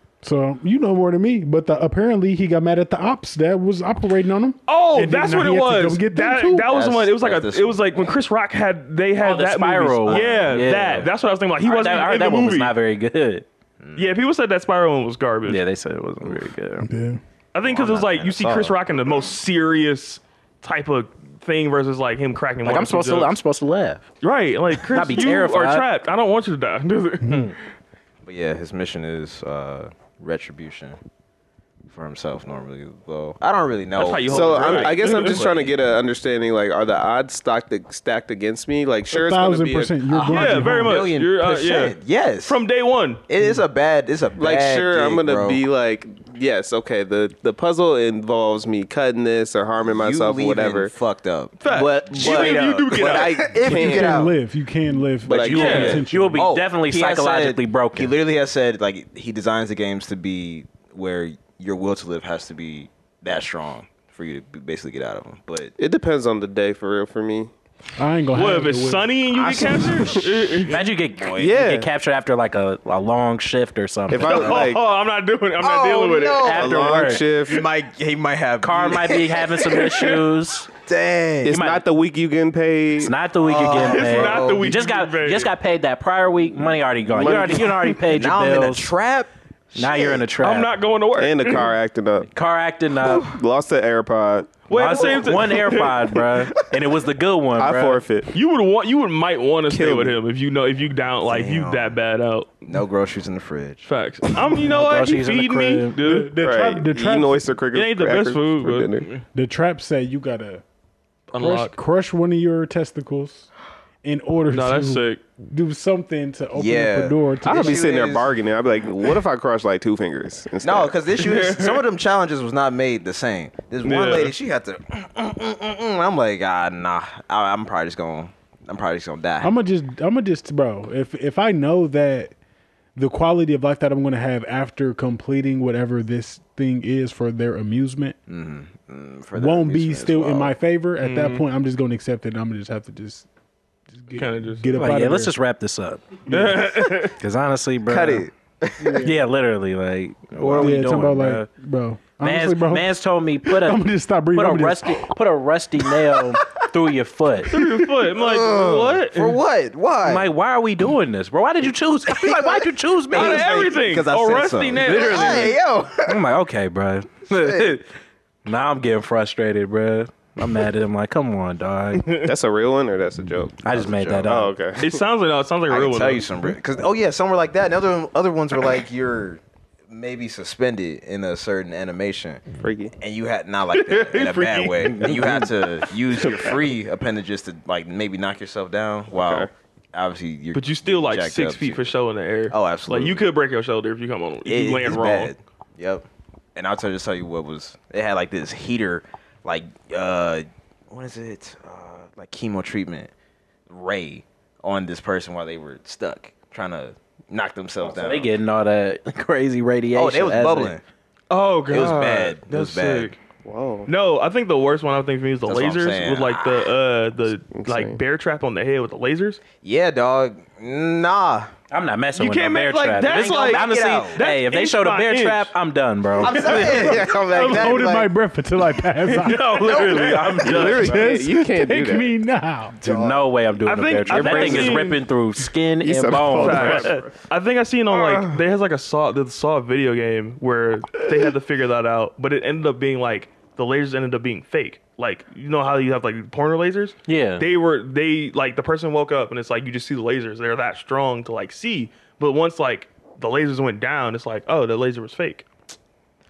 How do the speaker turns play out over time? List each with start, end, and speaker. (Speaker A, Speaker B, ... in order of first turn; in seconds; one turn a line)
Speaker A: 0.2-6.7
Speaker B: 4.7-12.7
Speaker C: 6.7-8.1
Speaker D: 9.2-11.1
Speaker C: 10.1-10.5
Speaker D: 11.6-13.4
Speaker C: 13.8-14.1
Speaker B: 13.9-15.6
Speaker D: 15.4-16.9
Speaker A: 16.8-17.2
Speaker B: 17.5-23.3
Speaker C: 17.6-18.8
Speaker D: 22.6-24.0
Speaker B: 24.2-27.6
Speaker D: 24.8-25.9
Speaker C: 28.2-31.0
Speaker C: 31.9-35.7
Speaker B: 33.9-35.5
Speaker E: 34.3-40.0
Speaker A: 39.1-41.1
Speaker C: 40.1-42.6
Speaker B: 40.3-43.2
Speaker C: 43.3-45.6
Speaker E: 44.4-50.9
Speaker C: 49.8-54.3
Speaker B: 51.6-53.5
Speaker E: 52.1-54.3
Speaker A: 53.5-56.5
Speaker E: 55.2-56.0
Speaker C: 55.3-65.7
Speaker D: 55.3-58.1
Speaker B: 55.5-56.0
Speaker E: 65.8-67.5
Speaker A: 68.0-70.1
Speaker B: 68.3-70.8
Speaker C: 69.3-70.3
Speaker D: 70.7-74.5
Speaker C: 71.2-71.6
Speaker E: 71.3-71.9
Speaker E: 74.1-74.8
Speaker B: 74.2-76.7
Speaker C: 74.3-74.7
Speaker C: 75.6-79.6
Speaker D: 76.4-77.2
Speaker E: 76.5-77.7
Speaker D: 78.6-80.7
Speaker B: 79.8-80.1
Speaker C: 80.8-81.6
Speaker E: 81.4-83.2
Speaker D: 81.5-81.8
Speaker D: 83.0-88.9
Speaker C: 83.4-84.7
Speaker B: 83.6-85.5
Speaker C: 87.1-90.2
Speaker B: 87.2-87.5
Speaker D: 89.7-90.7
Speaker B: 90.4-91.7
Speaker E: 91.2-92.3
Speaker D: 92.3-93.3
Speaker E: 93.0-95.3
Speaker B: 94.7-96.2
Speaker D: 94.7-98.0
Speaker E: 97.5-98.3
Speaker B: 98.3-102.7
Speaker E: 99.7-100.2
Speaker C: 101.3-102.0
Speaker C: 102.7-103.9
Speaker B: 103.8-106.3
Speaker D: 104.6-106.0
Speaker A: 106.0-107.5
Speaker E: 106.3-109.1
Speaker B: 107.7-109.2
Speaker A: 109.3-110.6
Speaker B: 111.3-111.7
Speaker A: 111.3-113.5
Speaker A: 114.0-117.9
Speaker B: 114.5-115.2
Speaker C: 116.5-118.3
Speaker E: 117.4-121.0
Speaker C: 120.6-129.5
Speaker B: 121.2-121.8
Speaker B: 123.8-124.3
Speaker A: 129.4-132.3
Speaker A: 132.9-138.2
Speaker C: 138.3-140.6
Speaker A: 139.3-143.3
Speaker B: 141.0-141.4
Speaker A: 143.9-145.3
Speaker B: 144.1-144.7
Speaker D: 144.7-148.3
Speaker B: 146.3-147.1
Speaker C: 147.9-149.1
Speaker A: 148.8-149.1
Speaker D: 149.0-151.5
Speaker A: 150.4-155.1
Speaker D: 152.2-157.6
Speaker B: 157.5-159.4
Speaker C: 158.0-160.3
Speaker D: 160.0-163.7
Speaker C: 162.1-166.2
Speaker B: 163.1-165.6
Speaker D: 164.8-167.8
Speaker C: 167.3-167.8
Speaker D: 168.4-172.2
Speaker B: 172.0-172.3
Speaker E: 172.2-175.0
Speaker D: 173.6-174.6
Speaker B: 174.8-176.4
Speaker C: 175.7-182.4
Speaker E: 182.6-182.9
Speaker C: 183.0-191.8
Speaker B: 183.7-185.3
Speaker E: 189.1-189.5
Speaker B: 190.5-195.3
Speaker C: 192.5-193.2
Speaker C: 194.4-203.1
Speaker C: 203.7-208.3
Speaker D: 207.9-210.8
Speaker C: 209.9-210.8
Speaker B: 211.3-213.2
Speaker C: 211.7-213.1
Speaker E: 213.4-213.9
Speaker B: 213.9-219.4
Speaker C: 215.4-216.7
Speaker E: 217.5-218.0
Speaker C: 219.6-221.5
Speaker D: 221.7-227.0
Speaker B: 222.2-225.5
Speaker C: 223.1-224.2
Speaker C: 226.2-228.1
Speaker E: 226.3-227.6
Speaker A: 226.7-229.9
Speaker D: 229.2-231.1
Speaker B: 229.3-230.8
Speaker C: 229.6-230.4
Speaker E: 229.8-232.1
Speaker A: 230.5-232.8
Speaker D: 232.8-237.0
Speaker C: 232.8-233.2
Speaker B: 233.6-235.0
Speaker E: 234.1-235.0
Speaker E: 235.8-237.1
Speaker B: 236.1-255.5
Speaker E: 237.9-238.4
Speaker D: 247.1-247.5